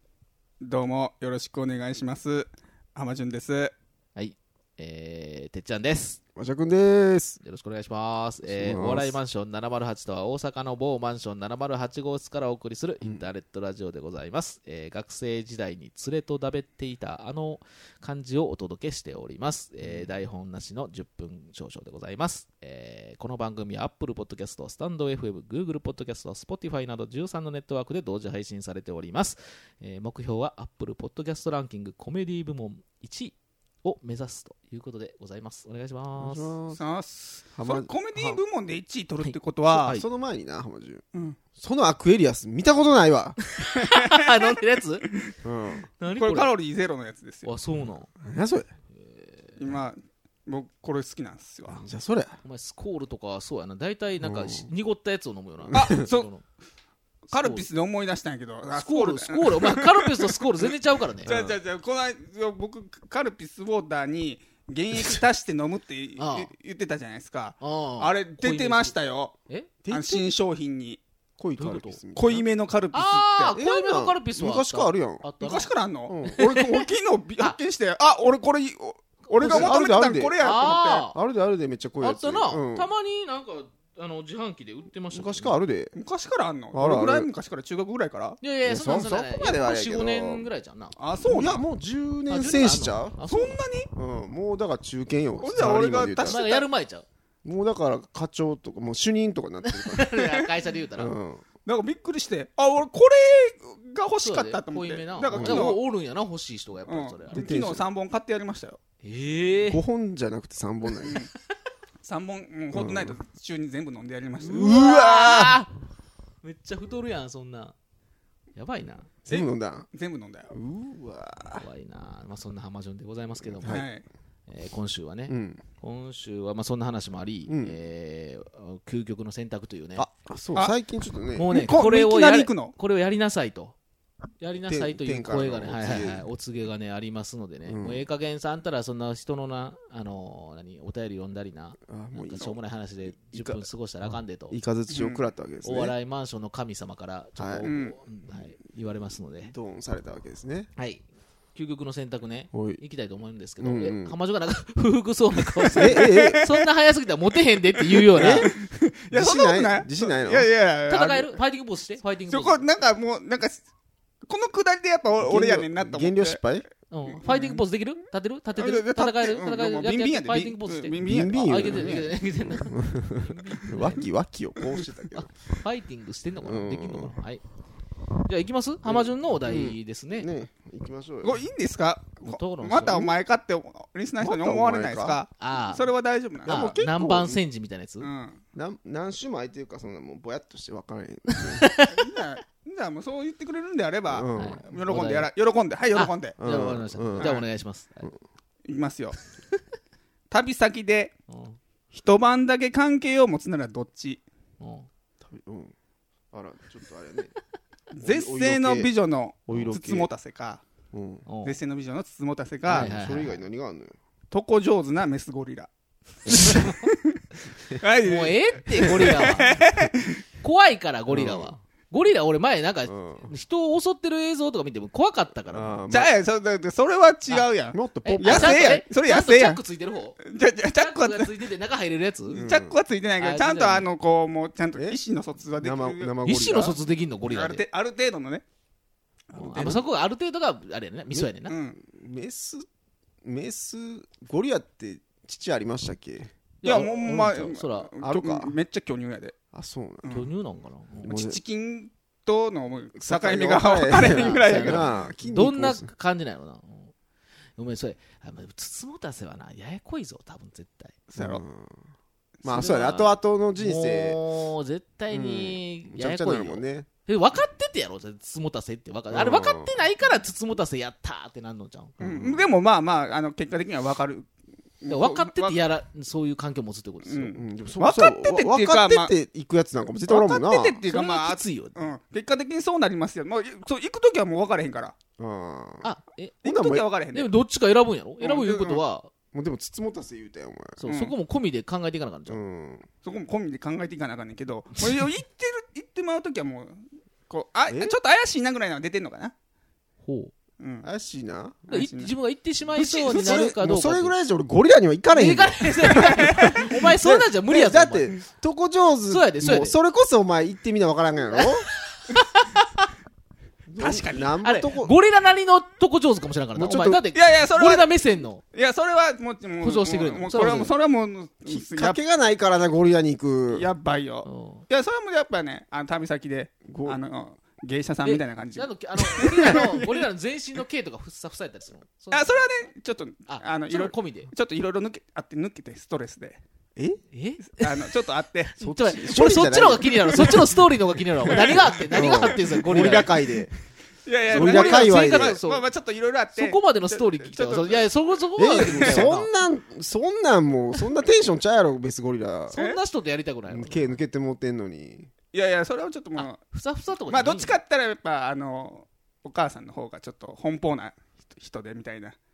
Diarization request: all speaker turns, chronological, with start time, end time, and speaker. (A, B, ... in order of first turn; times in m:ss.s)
0:00.6-0:03.7 A
0:04.2-0:06.2 B
0:06.4-0:07.4 C
0:07.4-0:36.5 B
0:08.4-0:09.2 C
0:13.0-0:13.3 C
0:19.8-0:20.1 C
0:36.2-0:36.8 C
0:36.8-0:40.0 A
0:37.6-0:38.4 C
0:39.2-0:40.0 B
0:39.7-0:41.0 C
0:41.6-0:43.4 C
0:43.6-0:45.1 B
0:43.8-0:44.6 A
0:45.4-0:45.9 C
0:46.0-0:46.5 B
0:46.1-0:47.5 A
0:47.4-0:48.1 B
0:48.2-0:48.7 C
0:48.9-0:49.8 B
0:49.6-0:51.8 A
0:51.7-0:52.4 C
0:52.4-0:56.4 B
0:54.2-0:54.7 C
0:55.6-0:55.9 C
0:55.7-0:56.3 A
0:57.3-1:00.3 A
0:57.3-0:57.7 B
0:58.7-1:01.3 B
1:01.2-1:01.6 C
1:01.2-1:09.3 A
1:06.2-1:06.5 B
1:07.6-1:09.0 B
1:09.8-1:10.3 C
1:09.9-1:11.0 A
1:11.4-1:12.4 C
1:11.6-1:12.0 B
1:12.1-1:13.6 A
1:12.9-1:15.7 B
1:13.5-1:15.3 C
1:15.4-1:21.1 A
1:16.1-1:16.4 C
1:16.3-1:16.8 B
1:19.3-1:19.8 B
1:19.4-1:20.4 C
1:20.4-1:21.2 B
1:21.1-1:22.9 C
1:22.0-1:25.6 B
1:25.1-1:25.9 C
1:26.0-1:28.4 A
1:26.7-1:27.3 C
1:28.4-1:31.0 B
1:28.6-1:30.5 C
1:31.0-1:31.6 A
1:31.2-1:33.2 C
1:32.3-1:33.6 B
1:33.3-1:33.9 A
1:34.0-1:36.5 C
1:35.4-1:36.7 A
1:36.2-1:37.0 B
1:37.4-1:40.4 C
1:39.6-1:41.1 B
1:41.0-1:41.4 C
1:41.6-1:45.8 A
1:44.2-1:47.5 B
1:45.3-1:45.8 C
1:46.9-1:48.8 A
1:47.3-1:47.9 C
1:49.0-1:49.8 B
1:49.7-1:51.2 C
1:51.0-1:51.3 A
1:52.0-1:54.6 A
1:52.7-1:53.2 C
1:54.4-1:55.6 C
1:54.4-1:55.7 B
1:56.4-1:57.8 B
1:58.6-1:59.1 B
1:59.3-1:59.9 C
1:59.3-2:00.5 A
2:00.5-2:01.7 C
2:01.6-2:03.9 B
2:03.6-2:03.9 C
2:03.6-2:04.0 A
2:04.5-2:10.1 B
2:05.3-2:05.6 C
2:07.5-2:07.8 C
2:10.0-2:11.5 C
2:11.4-2:13.8 B
2:11.5-2:12.8 A
2:14.4-2:24.6 B
2:14.6-2:16.3 C
2:17.7-2:18.0 C
2:21.9-2:23.7 C
2:24.5-2:26.0 C
2:24.9-2:25.2 A
2:25.6-2:29.5 B
2:27.4-2:27.7 C
2:27.6-2:28.0 A
2:29.4-2:30.7 C
2:30.8-2:31.0 B
2:31.6-2:38.5 B
2:32.5-2:32.8 C
2:33.6-2:34.1 C
2:35.6-2:36.6 A
2:35.8-2:36.4 C
2:38.0-2:41.4 A
2:38.1-2:38.5 C
2:39.1-2:40.5 C
2:40.9-2:42.6 B
2:42.3-2:43.6 A
2:44.3-2:46.4 A
2:45.2-2:46.7 C
2:46.9-2:54.1 B
2:47.1-2:47.6 A
2:48.6-2:52.1 A
2:51.0-2:55.3 C
2:54.6-2:54.9 A
2:55.1-2:57.4 B
2:56.3-2:57.2 C
2:58.2-3:00.3 B
2:58.9-3:01.4 C
3:01.2-3:06.6 A
3:02.2-3:03.1 B
3:04.2-3:05.2 C
3:05.4-3:05.9 B
3:06.4-3:07.4 C
3:06.5-3:08.1 B
3:08.0-3:08.4 A
3:08.5-3:11.7 C
3:11.4-3:12.1 B
3:11.9-3:16.4 A
3:14.1-3:14.6 C
3:14.4-3:15.3 B
3:15.9-3:18.2 B
3:16.4-3:17.4 C
3:17.2-3:17.5 A
3:18.7-3:19.2 A
3:20.3-3:21.1 A
3:21.3-3:21.6 B
3:21.9-3:24.2 A
3:24.6-3:24.9 B
3:25.2-3:25.7 C
3:26.3-3:27.3 C
3:27.9-3:30.6 A
3:28.0-3:28.9 C
3:29.5-3:30.1 C
3:30.9-3:31.3 C
3:31.3-3:31.6 B
3:31.4-3:32.9 A
3:32.7-3:34.0 C
3:32.7-3:33.4 B
3:34.3-3:35.7 A
3:36.3-3:36.9 B
3:36.7-3:37.2 A
3:37.7-3:40.2 A
3:38.0-3:39.6 B
3:40.4-3:45.8 B
3:41.1-3:41.6 C
3:42.9-3:43.3 C
3:45.5-3:46.1 C
3:45.9-3:49.6 A
3:47.7-3:48.7 C
3:48.0-3:50.2 B
3:50.2-3:51.4 A
3:50.7-3:52.4 B
3:52.3-3:56.2 A
3:52.3-3:52.8 C
3:53.2-3:53.9 B
3:55.6-3:56.8 C
3:56.2-3:57.6 B
3:57.3-3:58.4 A
3:59.3-3:59.8 A
3:59.4-3:59.8 C
3:59.4-4:01.5 B
4:01.1-4:02.7 C
4:01.5-4:01.8 A
4:03.2-4:07.3 C
4:06.6-4:07.9 B
4:06.6-4:09.4 A
4:08.0-4:08.6 C
4:09.5-4:10.2 C
4:10.0-4:10.3 A
4:10.1-4:11.2 B
4:11.0-4:11.4 C
4:11.0-4:15.0 A
4:13.0-4:15.9 C
4:14.0-4:16.9 B
4:17.6-4:21.0 B
4:21.1-4:21.4 A
4:21.2-4:21.8 C
4:22.4-4:24.2 C
4:22.5-4:32.0 B
4:25.1-4:26.9 C
4:29.1-4:29.7 C
4:32.0-4:32.5 C
4:32.0-4:34.3 A
4:34.8-4:35.6 A
4:34.9-4:37.4 B
4:37.1-4:39.2 A
4:37.3-4:40.8 C
4:40.1-4:45.0 A
4:40.9-4:41.8 B
4:45.2-4:45.9 C
4:45.8-4:46.4 B
4:46.4-4:46.9 C
4:46.4-4:47.3 A
4:47.1-4:49.1 B
4:48.2-4:48.8 A
4:49.3-4:50.8 C
4:50.8-4:52.4 B
4:50.9-4:51.2 A
4:52.3-4:52.9 C
4:53.0-4:59.3 A
4:57.7-4:58.0 C
5:00.0-5:00.3 B
5:00.6-5:00.9 A
5:00.8-5:01.9 C
5:01.7-5:04.1 B
5:01.7-5:02.1 A
5:02.8-5:11.7 C
5:05.1-5:08.1 B
5:05.9-5:06.7 A
5:09.1-5:09.8 B
5:11.4-5:12.8 B
5:13.7-5:14.9 C
5:13.8-5:14.4 A
5:14.4-5:18.4 B
5:16.6-5:17.0 C
5:17.1-5:17.9 A
5:18.5-5:22.0 A
5:19.6-5:20.8 B
5:21.5-5:23.7 C
5:23.5-5:30.1 A
5:24.2-5:24.6 B
5:26.7-5:27.0 C
5:28.0-5:32.4 B
5:32.1-5:36.4 A
5:33.3-5:34.3 B
5:37.1-5:37.9 B
5:37.5-5:38.5 A
5:38.6-5:43.2 B
5:38.6-5:40.7 C
5:41.2-5:42.4 A
5:41.9-5:43.5 C
5:44.1-5:47.9 A
5:44.3-5:45.4 C
5:44.3-5:45.7 B
5:46.3-5:49.3 B
5:48.4-5:52.6 C
5:48.6-5:49.1 A
5:52.5-5:54.0 B
5:52.5-5:52.8 A
5:53.5-5:55.1 C
5:55.3-5:56.4 A
5:56.2-5:57.6 B
5:57.1-6:02.2 A